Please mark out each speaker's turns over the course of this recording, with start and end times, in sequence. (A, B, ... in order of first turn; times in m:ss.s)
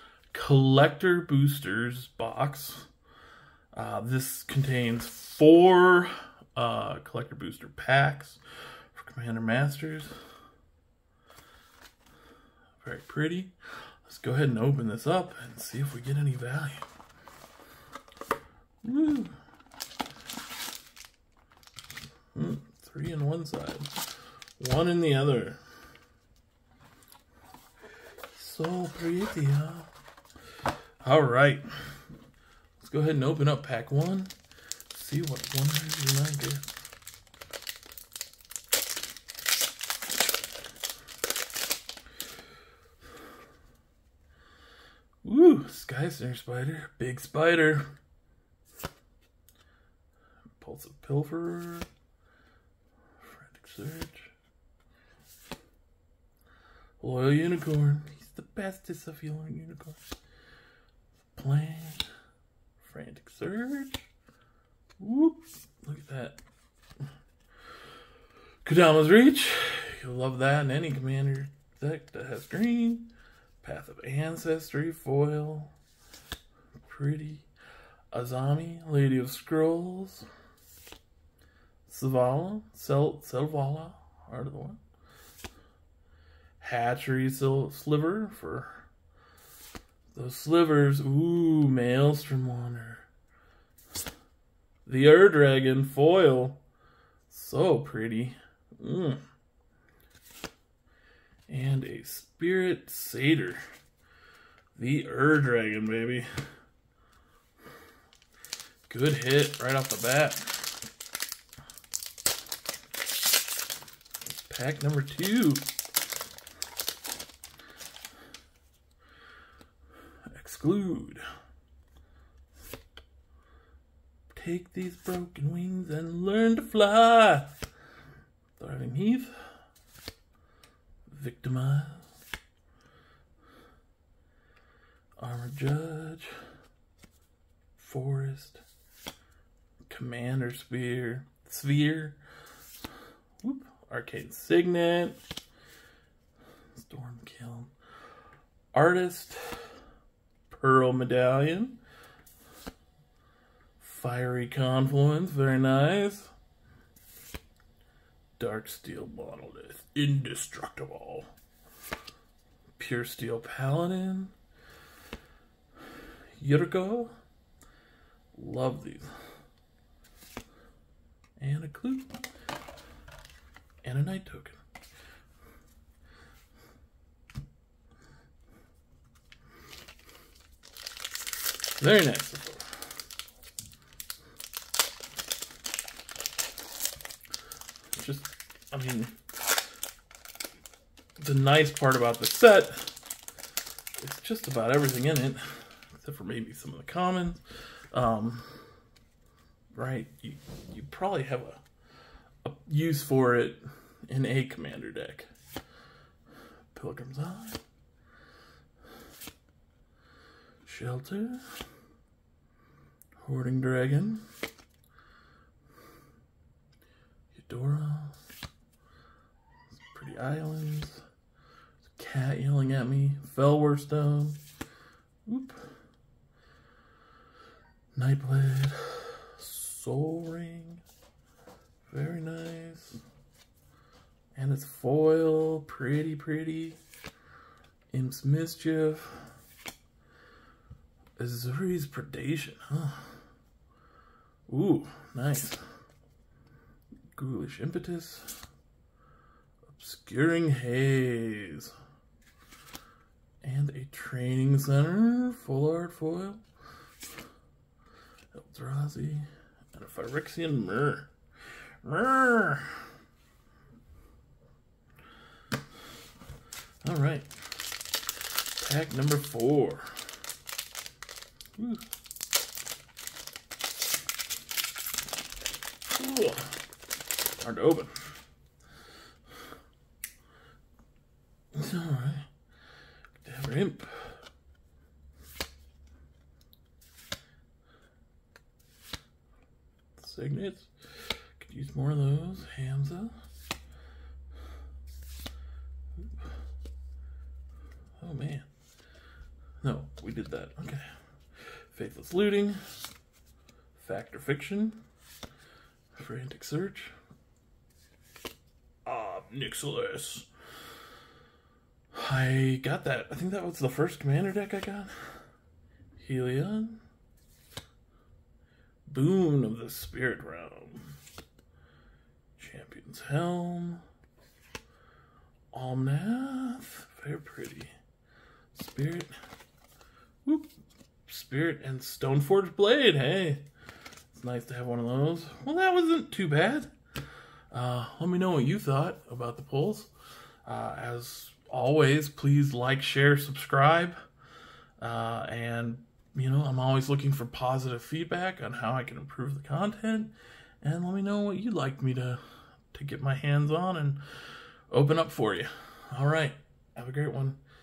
0:00.3-0:02.9 A
0:03.7-0:08.4 A
0:08.9-0:10.2 A
0:12.8-0:16.9 A
0:18.8-0:19.4 A
0:22.4-0:24.1 A
0:24.6-0:25.6 A
0:28.3-0:29.9 A
0:31.0-0:31.7 A
0:32.8-0:34.3 A
0:34.9-0:36.7 A
0:45.2-0:47.9 A
0:50.6-0:51.9 A
0:53.2-0:54.3 A
0:57.0-1:00.0 A
1:01.4-1:02.0 A
1:02.8-1:04.1 A
1:05.0-1:06.4 A
1:08.6-1:13.1 A
1:13.6-1:15.7 A
1:16.8-1:17.5 A
1:18.1-1:20.3 A
1:21.9-1:24.8 A
1:26.6-1:28.9 A
1:30.1-1:33.1 A
1:34.9-1:36.6 A
1:37.3-1:39.2 A
1:41.5-1:43.6 A
1:44.8-1:46.3 A
1:48.9-1:50.7 A
1:54.4-1:55.7 A
2:00.3-2:01.2 A
2:04.3-2:07.7 A
2:08.6-2:09.4 A
2:11.1-2:12.1 A
2:15.2-2:16.4 A
2:17.8-2:18.6 A
2:19.9-2:22.2 A
2:23.4-2:25.2 A
2:26.8-2:27.7 A
2:28.7-2:29.7 A
2:30.5-2:31.8 A
2:33.8-2:36.3 A
2:38.4-2:41.3 A
2:42.8-2:44.3 A
2:46.4-2:47.1 A
2:48.3-2:49.1 A
2:51.4-2:52.1 A
2:53.8-2:54.6 A
3:01.8-3:02.7 A
3:08.0-3:09.1 A
3:11.2-3:12.9 A
3:14.0-3:17.4 A
3:17.9-3:18.6 A
3:19.7-3:21.6 A
3:22.4-3:25.3 A
3:26.7-3:27.6 A
3:30.6-3:31.6 A
3:33.2-3:34.2 A
3:37.3-3:38.2 A
3:39.7-3:41.0 A
3:41.8-3:44.4 A
3:45.3-3:45.7 A
3:48.0-3:50.8 A
3:51.9-3:53.0 A
3:54.4-3:56.8 A
3:57.9-3:59.3 A
4:01.2-4:03.2 A
4:04.5-4:05.7 A
4:07.1-4:08.4 A
4:09.7-4:11.8 A
4:13.4-4:16.4 A
4:18.3-4:21.1 A
4:21.8-4:22.8 A
4:26.8-4:27.3 A
4:28.6-4:30.0 A
4:31.6-4:31.8 A
4:35.9-4:36.6 A
4:37.4-4:38.1 A
4:41.5-4:42.3 A
4:43.2-4:44.2 A
4:50.0-4:53.2 A
4:58.0-4:58.5 A
4:59.6-5:02.6 A
5:03.8-5:04.8 A
5:06.0-5:07.0 A
5:08.8-5:10.3 A
5:11.9-5:14.9 A
5:16.0-5:16.8 A
5:18.9-5:21.0 A
5:22.4-5:23.8 A
5:25.5-5:27.7 A
5:28.5-5:29.1 A
5:31.1-5:33.4 A
5:34.1-5:36.7 A
5:37.5-5:39.9 A
5:40.4-5:44.0 A
5:44.8-5:52.2 A
5:52.7-5:54.0 A
5:54.7-5:57.4 A